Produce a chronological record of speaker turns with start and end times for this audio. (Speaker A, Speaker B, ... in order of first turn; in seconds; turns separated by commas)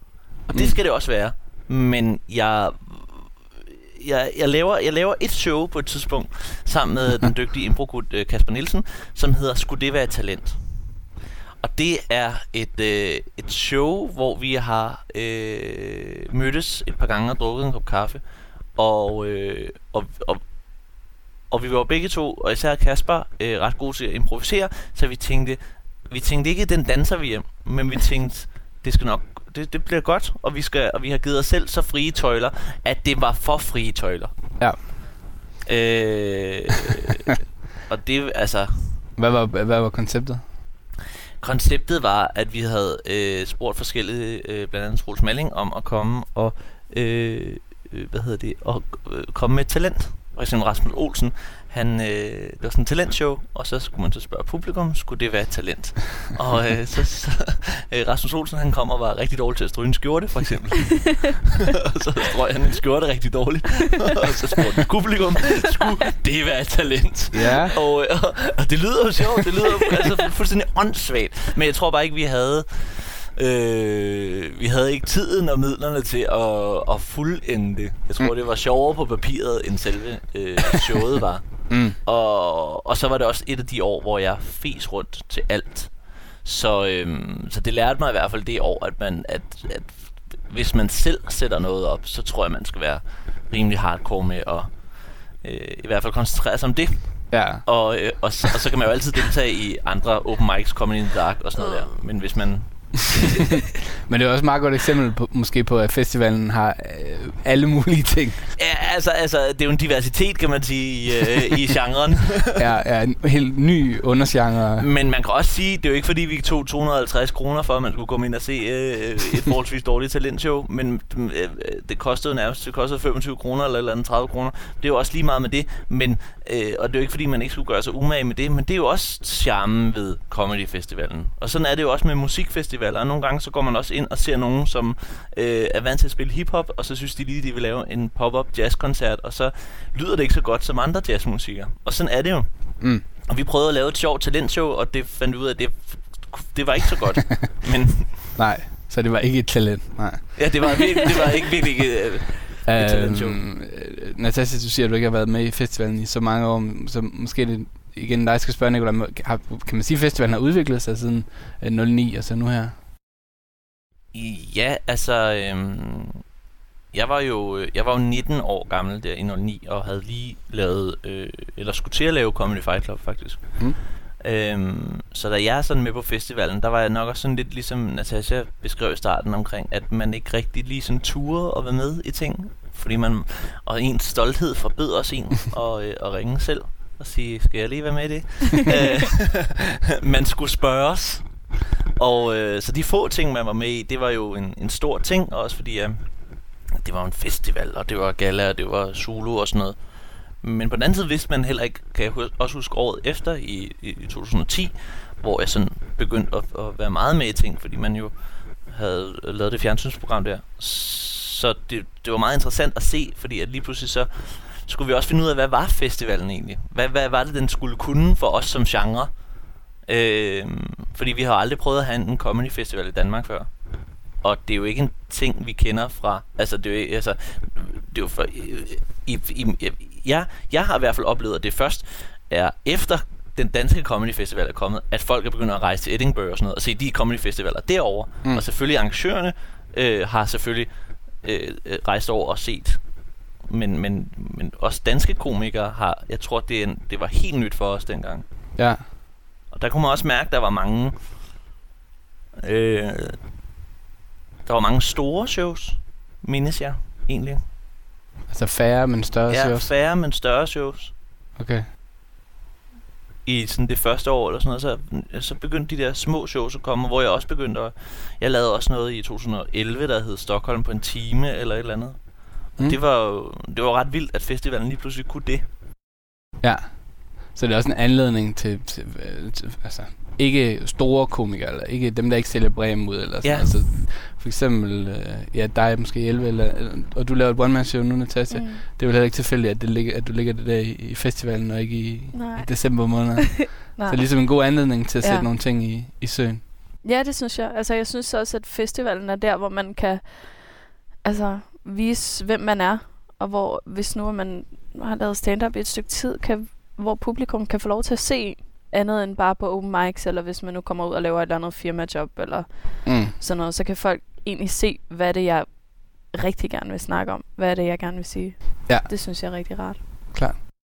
Speaker A: 0.5-10.6, Speaker B: 0.5-0.8, Speaker A: 11.6-18.2, Speaker A: 18.8-20.4, Speaker A: 21.5-25.6, Speaker A: 26.1-34.3, Speaker A: 35.7-38.7, Speaker B: 39.2-40.4, Speaker A: 41.4-81.5, Speaker B: 67.3-67.8, Speaker B: 81.7-82.0, Speaker A: 82.0-85.9, Speaker A: 86.5-89.9, Speaker A: 90.5-94.7, Speaker A: 95.4-97.1, Speaker B: 97.3-97.6, Speaker A: 97.7-103.6, Speaker B: 103.4-108.4, Speaker A: 108.6-112.7, Speaker B: 112.6-114.9, Speaker A: 114.8-142.5, Speaker A: 143.3-148.1, Speaker B: 148.4-150.4, Speaker A: 150.4-153.4, Speaker B: 152.7-162.7, Speaker A: 164.1-166.2, Speaker A: 166.9-173.5, Speaker A: 174.2-191.2, Speaker A: 192.0-196.0, Speaker A: 196.8-199.8, Speaker A: 200.4-208.1, Speaker A: 208.7-214.1, Speaker A: 214.6-219.1, Speaker A: 219.9-223.5, Speaker A: 224.2-240.7, Speaker A: 241.2-242.8, Speaker A: 243.5-248.2, Speaker A: 249.5-250.9, Speaker A: 252.4-253.2, Speaker A: 254.5-257.4, Speaker B: 258.3-259.7, Speaker A: 259.3-260.9, Speaker B: 261.4-261.7, Speaker A: 263.3-272.0, Speaker A: 272.6-275.4, Speaker B: 277.3-296.4, Speaker A: 283.2-283.6, Speaker C: 288.3-288.6, Speaker C: 292.1-294.0, Speaker C: 295.0-295.3, Speaker C: 296.8-300.5, Speaker C: 301.0-315.6, Speaker B: 312.9-313.1, Speaker C: 316.1-319.8